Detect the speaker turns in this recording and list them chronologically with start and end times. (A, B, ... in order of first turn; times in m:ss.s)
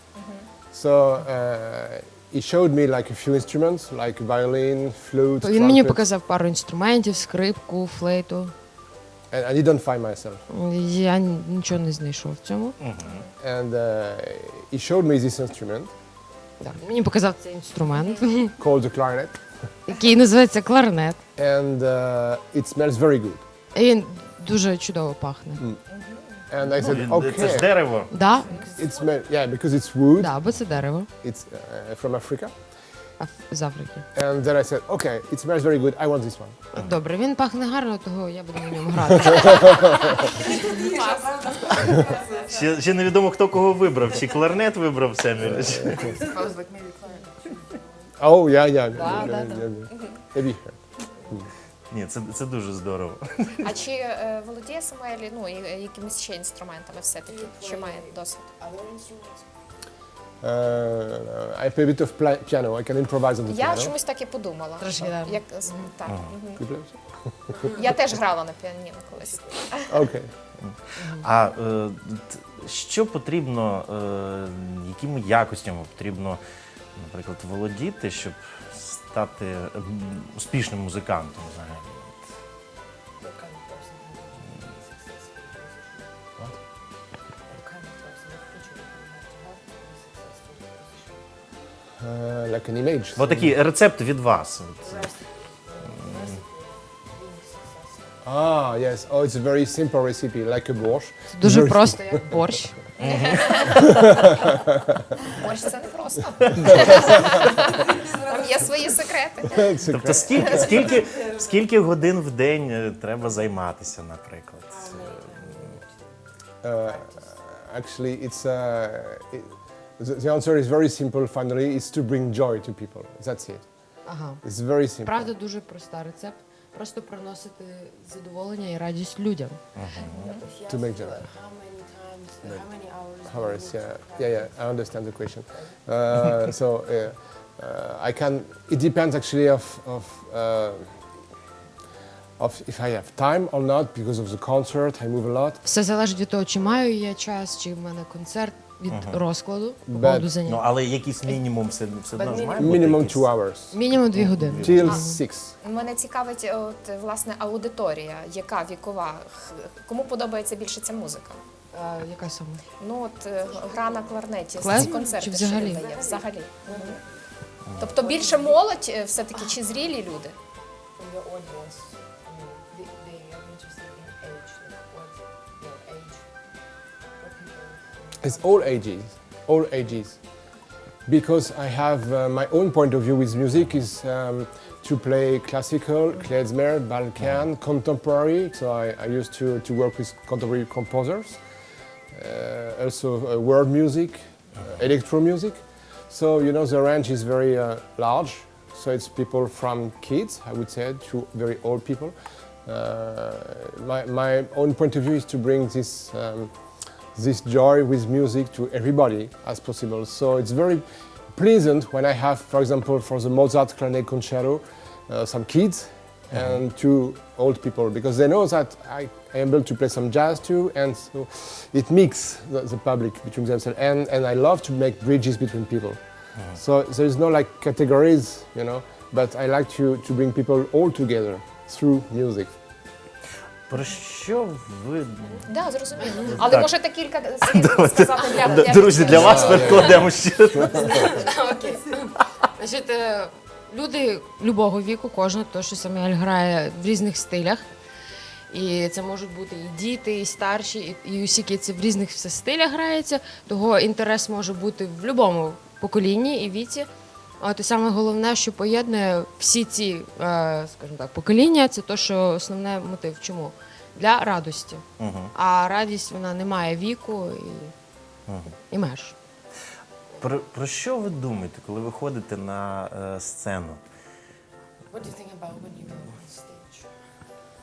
0:00.1-0:00.5 A
0:00.7-0:06.0 B
0:05.4-0:08.5 C
0:09.3-0:10.4 B
0:10.5-0:12.8 C
0:12.8-0:13.2 D
0:13.0-0:13.3 A
0:13.4-0:15.9 B
0:16.6-0:18.6 C
0:18.0-0:18.3 A
0:18.6-0:19.4 B
0:19.9-0:21.2 C
0:21.4-0:23.4 B
0:23.7-0:25.6 C
0:25.9-0:26.4 A
0:26.5-0:27.8 B
0:26.7-0:28.1 D
0:28.1-0:28.6 C
0:28.2-0:29.1 E
0:28.8-0:30.3 B
0:30.2-0:31.1 C
0:31.2-0:32.5 B
0:33.2-0:34.1 C
0:34.1-0:36.6 B
0:36.7-0:40.5 C
0:39.3-0:40.2 B
0:40.1-0:41.5 A
0:40.2-0:43.0 E
0:41.7-0:46.2 D
0:45.4-0:46.2 B
0:45.9-0:48.1 E
0:48.2-0:50.8 B
0:48.9-0:49.6 C
0:51.0-0:51.7 E
0:51.9-0:53.7 D
0:53.6-0:58.5 A
0:57.2-0:59.5 E
1:00.4-1:03.9 B
1:03.5-1:06.6 A
1:04.8-1:05.9 C
1:06.0-1:06.3 D
1:06.6-1:07.7 B
1:07.6-1:10.0 A
1:09.8-1:10.3 B
1:10.6-1:16.4 D
1:11.0-1:11.3 C
1:17.0-1:22.3 D
1:23.2-1:26.2 E
1:27.4-1:31.4 E
1:32.0-1:33.5 B
1:33.2-1:35.1 D
1:34.8-1:38.2 E
1:38.2-1:42.5 B
1:41.3-1:42.9 C
1:43.0-1:43.8 A
1:43.0-1:43.8 D
1:43.7-1:45.0 B
1:45.2-1:49.7 A
1:47.0-1:49.1 E
1:49.4-1:51.0 B
1:49.8-1:55.3 D
1:50.4-1:51.7 E
1:54.6-1:57.4 E
1:56.6-2:03.6 B
2:04.0-2:04.4 C
2:04.4-2:05.3 B
2:05.0-2:09.8 C
2:09.8-2:10.4 D
2:09.9-2:14.7 E
2:10.7-2:11.2 B
2:13.2-2:21.0 B
2:22.4-2:25.6 B
2:25.6-2:30.6 C
2:28.9-2:29.2 D
2:29.9-2:30.3 B
2:30.4-2:33.3 D
2:32.2-2:32.8 E
2:32.6-2:33.8 B
2:33.7-2:35.2 C
2:34.1-2:35.0 D
2:34.6-2:35.5 B
2:35.6-2:41.4 A
2:41.7-2:42.6 C
2:42.8-2:47.0 A
2:43.4-2:44.5 E
2:44.6-2:45.8 C
2:45.6-2:47.3 E
2:47.8-2:48.8 E
2:47.8-2:50.3 A
2:50.9-2:59.0 E
2:58.2-3:00.2 B
3:01.0-3:11.4 B
3:12.1-3:22.1 B
3:22.6-3:26.5 B
3:27.1-3:46.0 B
3:36.3-3:36.6 D
3:46.6-3:52.5 B
3:53.7-3:55.4 D
3:55.4-4:00.0 A
3:56.3-3:56.7 D
3:57.4-4:01.2 D
3:59.1-4:01.0 B
4:00.6-4:07.7 C
4:08.5-4:16.9 C
4:17.4-4:27.7 C
4:25.0-4:25.3 D
4:28.3-4:28.5 D
4:28.7-4:29.1 C
4:30.2-4:33.8 D
4:34.9-4:36.9 E